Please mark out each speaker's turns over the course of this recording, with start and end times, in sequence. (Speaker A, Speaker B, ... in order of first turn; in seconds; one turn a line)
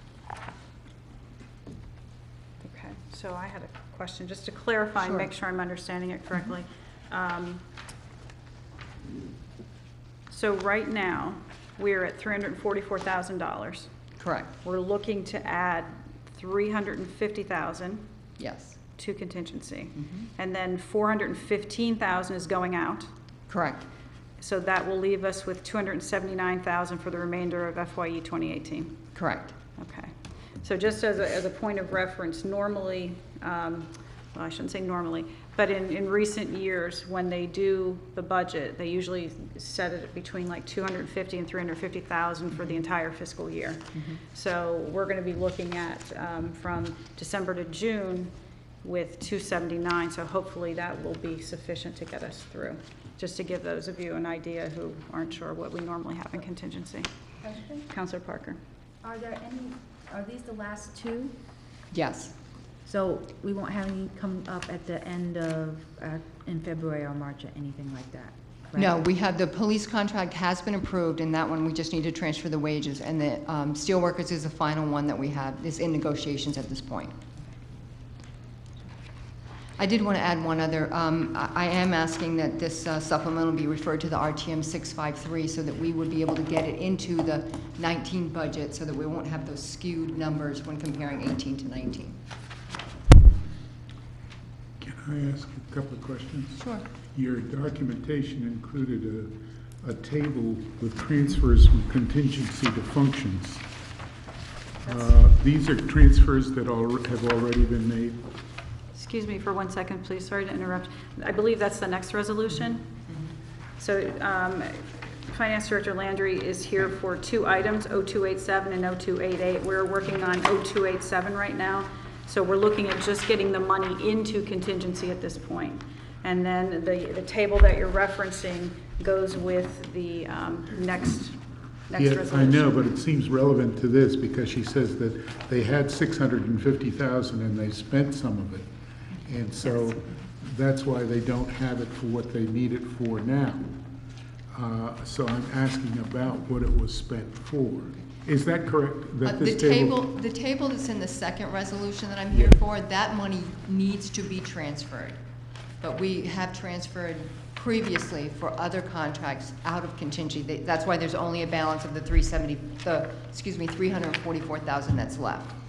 Speaker A: 2.6-7.6
Speaker B: 5.0-5.3
Speaker A: 10.3-13.9
Speaker B: 14.2-14.5
Speaker A: 14.6-18.0
Speaker B: 18.4-18.8
Speaker A: 19.0-23.1
Speaker B: 20.0-20.3
Speaker B: 23.5-23.9
Speaker A: 24.4-29.0
Speaker B: 29.1-29.6
Speaker A: 29.8-57.1
Speaker C: 57.4-57.9
Speaker A: 57.9-58.6
Speaker C: 59.0-61.4
Speaker B: 61.9-62.3
Speaker C: 62.9-69.0
Speaker B: 68.8-77.2
Speaker B: 79.8-92.2
Speaker D: 94.8-103.6
Speaker B: 96.6-96.8
Speaker D: 104.8-108.2
Speaker A: 108.9-112.9
Speaker A: 113.8-132.7
Speaker D: 131.9-138.7
Speaker D: 139.2-143.8
Speaker D: 144.5-150.0
Speaker B: 149.2-155.2
Speaker B: 155.8-165.6